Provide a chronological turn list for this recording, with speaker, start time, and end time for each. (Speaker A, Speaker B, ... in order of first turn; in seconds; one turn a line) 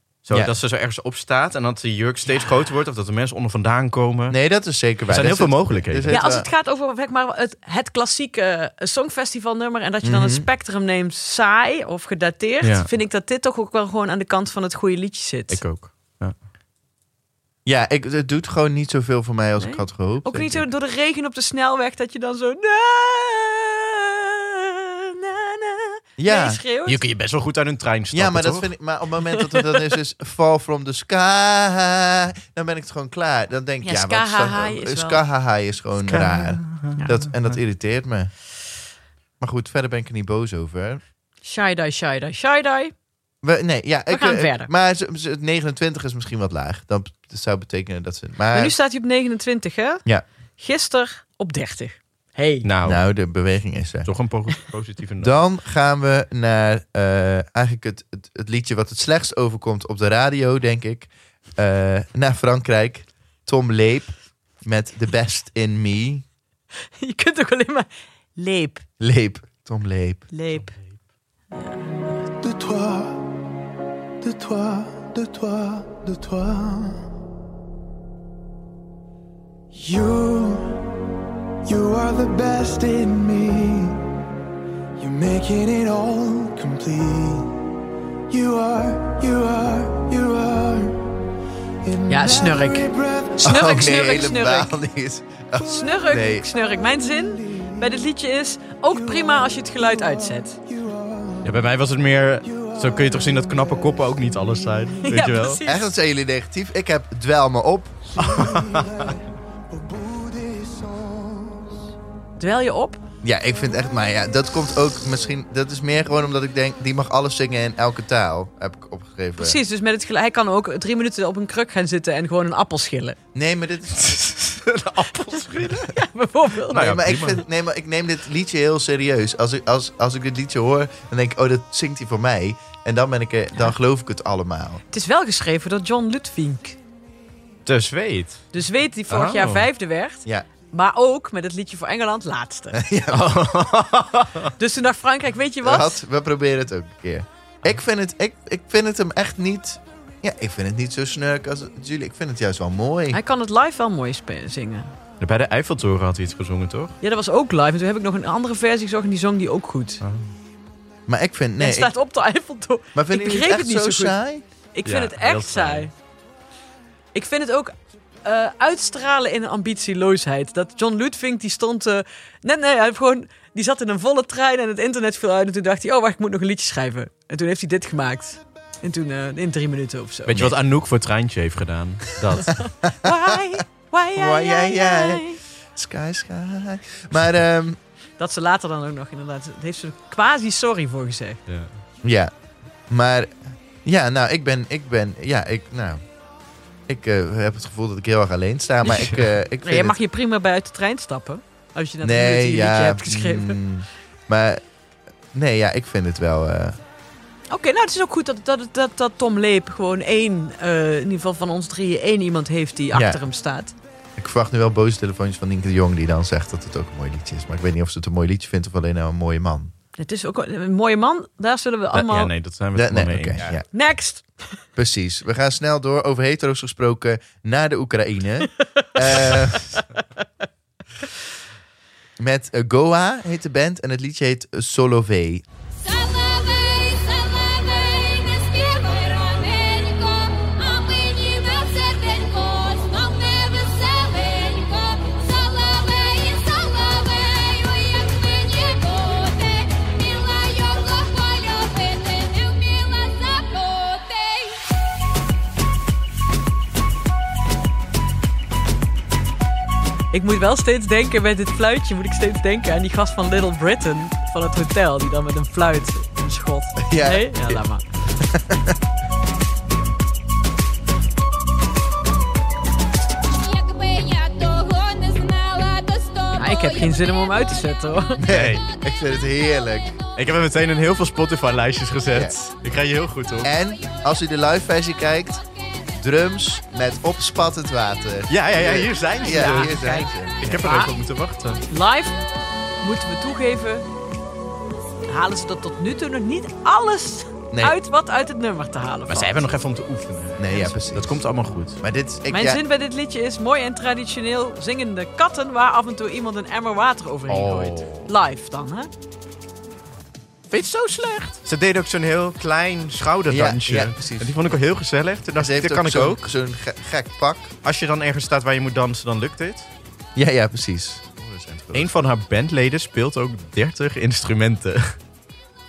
Speaker A: 0.2-4.4
Speaker B: 4.3-6.5
Speaker A: 5.1-6.2
Speaker C: 6.1-15.6
Speaker B: 10.0-10.5
Speaker A: 12.6-12.9
Speaker A: 15.5-16.3
Speaker B: 17.6-20.6
Speaker C: 19.6-27.0
Speaker B: 26.2-26.6
Speaker A: 26.9-28.7
Speaker B: 28.1-38.3
Speaker C: 33.8-35.2
Speaker A: 36.1-37.0
Speaker C: 37.0-37.2
Speaker B: 39.4-41.0
Speaker C: 41.4-42.9
Speaker B: 43.4-48.7
Speaker C: 44.1-44.7
Speaker C: 48.5-50.0
Speaker C: 50.6-52.7
Speaker A: 52.6-53.0
Speaker B: 52.8-54.1
Speaker A: 54.0-55.4
Speaker B: 55.2-66.2
Speaker C: 67.0-68.8
Speaker B: 69.0-70.3
Speaker C: 70.3-70.7
Speaker C: 71.5-72.3
Speaker D: 72.4-73.1
Speaker D: 74.2-76.9
Speaker D: 79.8-80.6
Speaker D: 81.7-83.9
Speaker D: 85.0-87.5
Speaker D: 88.3-90.9
Speaker D: 91.8-93.2
Speaker C: 92.1-94.7
Speaker B: 93.4-96.5
Speaker C: 95.6-100.6
Speaker A: 101.4-105.6
Speaker C: 105.0-105.9
Speaker B: 105.6-108.0
Speaker A: 108.2-109.1
Speaker D: 108.3-109.1
Speaker D: 109.7-111.6
Speaker C: 112.4-113.0
Speaker B: 113.2-119.6
Speaker C: 119.4-123.2
Speaker B: 123.3-124.2
Speaker A: 124.0-125.9
Speaker C: 125.3-126.8
Speaker A: 126.7-127.4
Speaker B: 126.7-134.8
Speaker C: 134.9-136.8
Speaker A: 137.6-138.5
Speaker C: 138.5-142.8
Speaker A: 139.1-139.7
Speaker B: 142.7-143.6
Speaker A: 143.1-144.5
Speaker C: 144.6-146.0
Speaker B: 145.6-153.2
Speaker C: 153.1-154.9
Speaker A: 155.2-156.9
Speaker C: 157.0-160.0
Speaker A: 160.0-160.3
Speaker B: 161.1-161.9
Speaker C: 161.6-164.2
Speaker B: 162.9-164.4
Speaker C: 164.7-165.9
Speaker A: 164.8-165.9
Speaker C: 167.1-180.5
Speaker A: 180.3-182.6
Speaker C: 182.5-185.4
Speaker B: 184.1-187.8
Speaker C: 188.2-191.4
Speaker B: 192.0-192.3
Speaker B: 192.9-196.0
Speaker B: 196.9-200.0
Speaker C: 199.6-203.6
Speaker B: 202.0-204.6
Speaker B: 205.3-206.8
Speaker C: 207.5-213.7
Speaker B: 212.9-213.2
Speaker B: 214.2-219.7
Speaker C: 220.0-222.3
Speaker A: 221.9-223.5
Speaker B: 222.7-223.6
Speaker C: 223.7-224.4
Speaker B: 224.8-229.7
Speaker C: 228.6-230.2
Speaker B: 232.2-235.4
Speaker E: 235.8-254.6
Speaker C: 260.1-267.8
Speaker B: 266.8-267.6
Speaker B: 268.2-268.8
Speaker E: 273.3-277.5
Speaker C: 276.3-278.2
Speaker B: 278.2-280.0
Speaker A: 278.3-278.6
Speaker A: 280.1-283.5
Speaker B: 283.4-285.4
Speaker B: 286.0-290.6
Speaker A: 288.3-289.8
Speaker C: 289.2-290.9
Speaker A: 290.4-291.6
Speaker C: 291.7-292.2
Speaker C: 292.8-293.8
Speaker C: 295.1-299.3
Speaker B: 297.5-297.8
Speaker A: 299.1-301.8
Speaker B: 300.4-301.1
Speaker B: 301.8-302.6
Speaker C: 302.3-308.9
Speaker A: 307.3-308.1
Speaker A: 310.5-316.2
Speaker B: 313.3-314.4
Speaker B: 315.4-317.5
Speaker A: 317.6-319.7
Speaker B: 320.1-321.9
Speaker A: 321.7-325.0